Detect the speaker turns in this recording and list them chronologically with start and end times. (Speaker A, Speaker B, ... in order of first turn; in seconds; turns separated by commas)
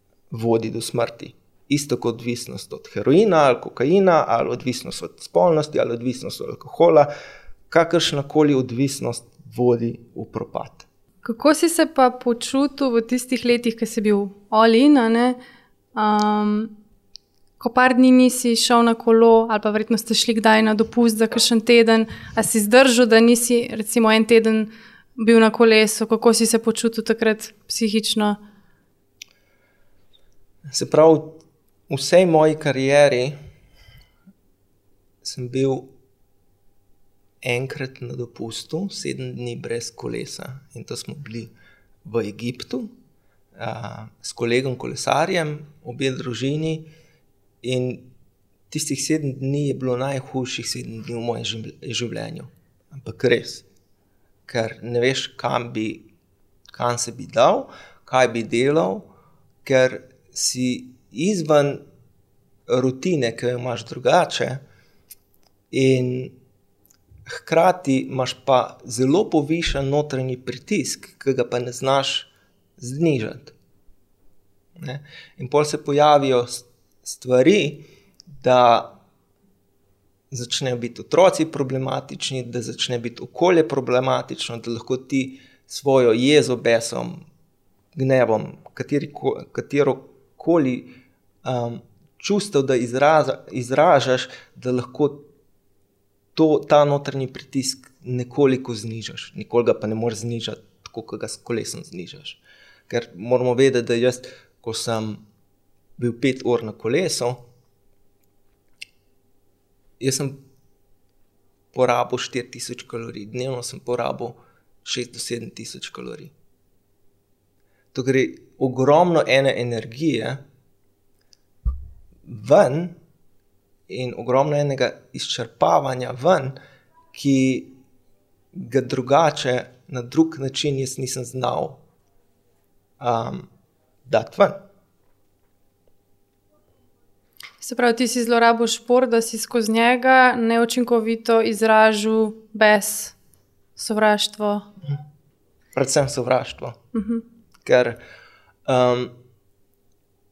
Speaker A: 0.3-7.1, Speaker A: 7.7-10.8, Speaker B: 11.2-15.4, Speaker B: 15.9-16.7, Speaker B: 17.6-28.4, Speaker A: 30.7-33.4, Speaker A: 35.2-35.9, Speaker A: 37.4-41.5, Speaker A: 42.0-42.9, Speaker A: 43.5-46.9, Speaker A: 47.6-48.1, Speaker A: 48.7-53.6, Speaker A: 54.5-56.0, Speaker A: 56.7-59.1, Speaker A: 59.6-61.8, Speaker A: 62.7-64.6, Speaker A: 65.7-66.3, Speaker A: 67.3-73.5, Speaker A: 74.8-77.9, Speaker A: 78.4-79.0, Speaker A: 80.3-87.3, Speaker A: 87.9-95.3, Speaker A: 96.3-105.2, Speaker A: 106.0-107.4, Speaker A: 110.0-110.4, Speaker A: 111.7-116.3, Speaker A: 117.9-120.4, Speaker A: 122.2-123.0, Speaker A: 123.9-126.6, Speaker A: 127.1-127.7, Speaker A: 128.5-131.8, Speaker A: 133.0-133.5, Speaker A: 134.1-134.6, Speaker B: 137.6-143.2, Speaker B: 143.8-144.7, Speaker A: 145.7-146.8, Speaker B: 146.9-147.2, Speaker A: 147.6-148.0, Speaker A: 148.7-149.2